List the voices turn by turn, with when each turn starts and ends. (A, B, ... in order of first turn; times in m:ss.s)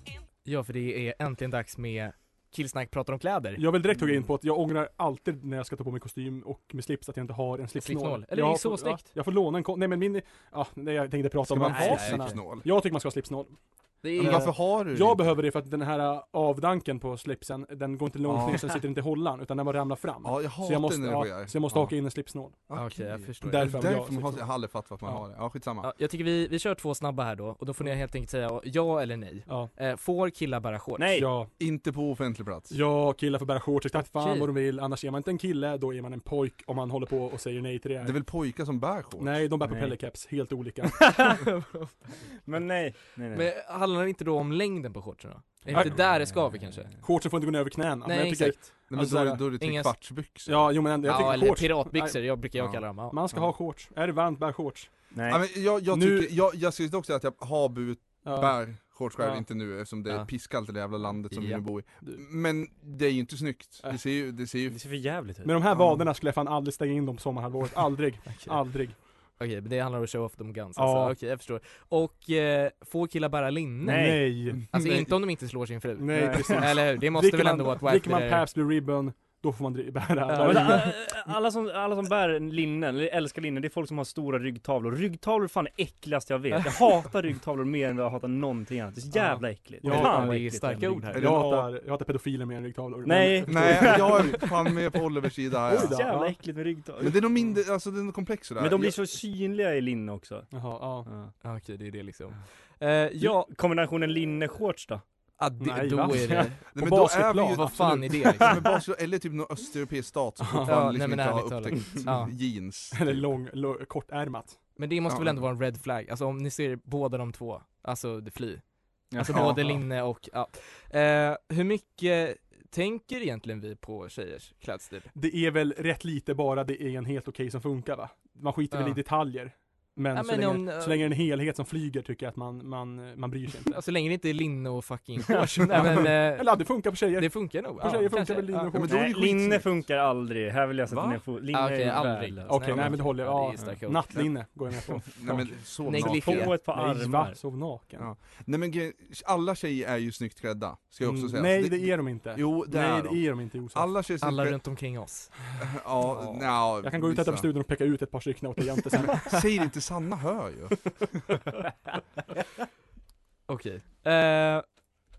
0:00.4-0:03.6 A
0:03.6-0:13.5 B
0:07.8-0:09.1 A
0:11.4-0:12.7 C
0:11.6-0:12.4 A
0:14.0-0:14.5 A
0:14.2-0:22.6 B
0:14.2-0:15.3 C
0:18.3-0:18.6 C
0:20.2-0:21.9 C
0:22.7-0:25.9 C
0:22.7-0:23.8 A
0:23.4-0:24.5 B
0:25.8-0:31.1 A
0:31.0-0:31.3 D
0:31.1-0:31.5 B
0:31.6-0:32.7 C
0:32.7-0:38.2 B
0:33.9-0:34.5 A
0:38.0-0:39.4 C
0:39.2-0:41.4 B
0:39.6-0:40.0 D
0:41.0-0:41.4 D
0:41.5-0:42.1 A
0:42.4-0:43.5 D
0:43.3-0:46.9 A
0:45.6-0:47.0 D
0:45.7-0:46.1 B
0:47.0-0:49.6 B
0:48.0-0:48.7 A
0:48.9-0:51.0 C
0:49.6-0:49.9 A
0:50.4-0:55.1 B
0:51.0-0:53.2 A
0:52.6-0:52.8 C
0:55.1-0:55.4 D
0:55.3-1:04.8 C
0:55.8-0:56.3 B
0:58.2-0:59.4 B
1:01.3-1:01.6 A
1:04.7-1:05.6 D
1:05.4-1:09.0 B
1:08.2-1:08.8 A
1:09.4-1:18.5 A
1:10.8-1:11.1 B
1:13.8-1:14.3 D
1:13.8-1:14.6 B
1:14.7-1:15.1 C
1:16.0-1:20.9 B
1:16.1-1:16.6 D
1:20.3-1:20.9 A
1:20.4-1:31.1 D
1:29.1-1:34.5 B
1:29.8-1:31.2 A
1:31.1-1:31.7 C
1:33.0-1:34.5 D
1:33.5-1:36.1 C
1:35.6-1:36.6 B
1:35.7-1:37.2 D
1:37.0-1:39.0 C
1:38.6-1:41.3 D
1:40.5-1:41.1 B
1:41.4-1:43.5 A
1:43.2-1:45.0 D
1:45.4-1:48.6 A
1:45.6-1:48.3 B
1:46.1-1:46.4 D
1:46.7-1:53.3 C
1:50.4-1:50.8 B
1:50.6-1:52.3 A
1:52.9-1:54.6 B
1:54.8-2:05.1 A
1:55.1-1:55.4 C
1:59.1-1:59.8 D
2:05.1-2:13.8 B
2:08.7-2:09.0 A
2:10.1-2:11.1 A
2:13.7-2:18.8 A
2:15.7-2:19.1 B
2:18.7-2:19.8 C
2:18.8-2:23.0 D
2:20.9-2:21.2 C
2:21.5-2:24.2 A
2:22.4-2:25.6 B
2:25.1-2:26.6 C
2:25.8-2:26.6 A
2:25.9-2:27.4 D
2:26.6-2:28.1 B
2:28.0-2:34.6 C
2:31.0-2:33.9 B
2:34.2-2:35.3 A
2:35.6-2:37.5 C
2:36.1-2:36.4 A
2:36.6-2:39.4 B
2:39.1-2:41.2 C
2:43.5-2:44.6 A